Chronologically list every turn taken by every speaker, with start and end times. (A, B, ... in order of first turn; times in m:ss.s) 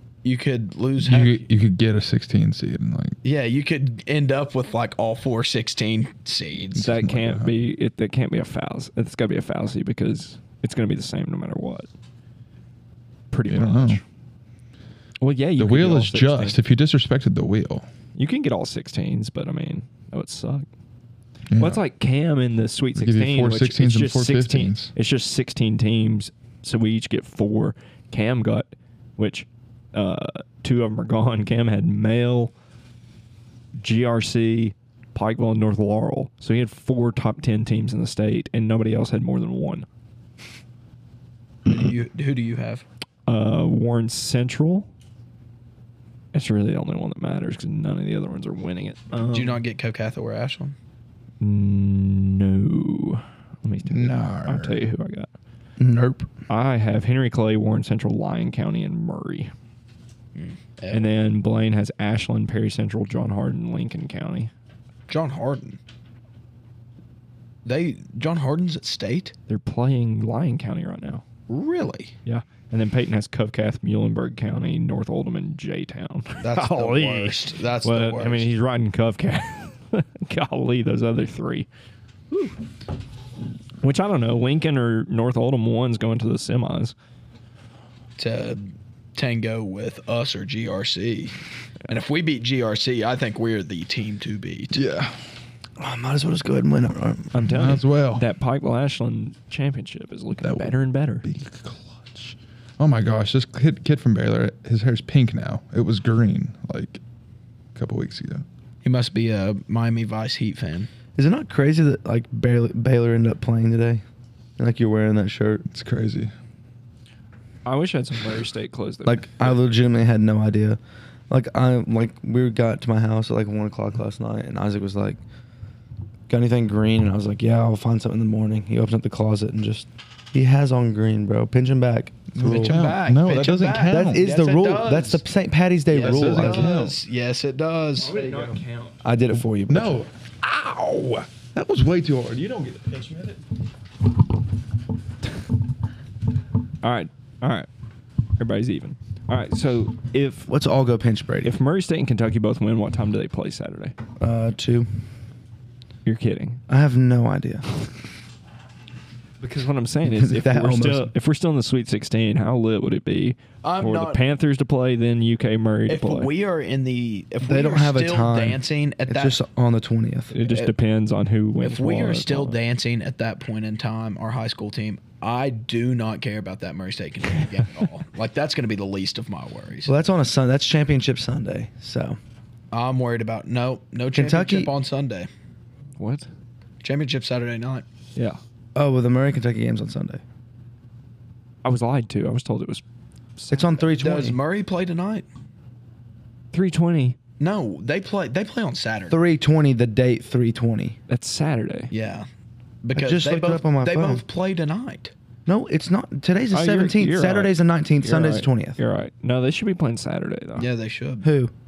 0:00.2-0:01.5 A
0:01.0-0:03.2 B
0:03.2-0:06.9 A
0:06.8-0:11.9 C
0:06.8-0:07.5 B
0:13.3-0:14.0 C
0:13.5-0:14.0 B
0:15.2-0:16.6 C
0:15.6-0:17.9 B
0:18.1-0:20.6 C
0:21.5-0:21.8 B
0:21.6-0:32.5 C
0:23.0-0:24.9 B
0:33.8-0:39.8 C
0:41.6-0:42.8 A
0:43.3-0:44.9 C
0:46.3-0:49.6 C
0:49.3-0:50.8 A
0:51.4-0:55.3 C
0:53.9-0:54.8 B
0:55.8-0:56.3 D
0:56.5-0:59.5 C
1:00.3-1:01.1 A
1:00.9-1:04.5 C
1:05.1-1:05.8 A
1:07.6-1:09.3 A
1:09.5-1:11.2 C
1:11.5-1:12.1 A
1:12.2-1:21.7 C
1:16.4-1:18.5 A
1:22.3-1:22.6 C
1:23.8-1:26.9 C
1:28.2-1:31.3 A
1:31.9-1:34.8 A
1:34.7-1:35.2 B
1:35.8-1:37.5 D
1:37.3-1:41.2 C
1:37.5-1:38.3 B
1:40.4-1:47.0 B
1:47.7-1:48.4 B
1:48.8-1:50.9 A
1:51.1-1:54.0 D
1:54.6-1:55.6 D
1:55.7-1:56.3 B
1:57.6-1:59.6 C
1:59.0-2:00.8 D
2:01.3-2:05.2 D
2:06.3-2:12.8 D
2:12.4-2:14.2 B
2:12.4-2:15.2 A
2:13.8-2:16.8 D
2:15.9-2:18.2 A
2:15.9-2:17.0 B
2:18.0-2:19.0 C
2:19.0-2:20.0 D
2:19.7-2:23.4 B
2:26.8-2:27.7 C
2:28.4-2:30.5 C
2:30.5-2:31.6 D
2:31.4-2:33.9 C
2:34.2-2:34.9 D
2:36.0-2:36.6 C
2:36.7-2:37.6 D
2:39.4-2:46.3 C
2:40.0-2:41.1 D
2:43.6-2:44.2 A
2:45.9-2:49.4 A
2:47.4-2:50.5 D
2:50.3-2:52.6 C
2:51.6-2:59.9 A
2:59.8-3:02.2 D
3:02.7-3:05.3 A
3:04.1-3:04.7 D
3:06.0-3:06.3 C
3:06.8-3:07.8 A
3:08.7-3:10.2 D
3:11.6-3:12.8 C
3:13.4-3:13.9 C
3:13.5-3:14.4 D
3:14.0-3:15.2 A
3:16.5-3:17.2 C
3:17.4-3:19.2 A
3:19.1-3:21.0 D
3:21.1-3:21.9 C
3:21.9-3:22.3 A
3:22.8-3:25.1 A
3:22.9-3:24.2 D
3:25.4-3:28.8 D
3:26.5-3:30.7 C
3:30.6-3:31.3 A
3:31.2-3:31.5 D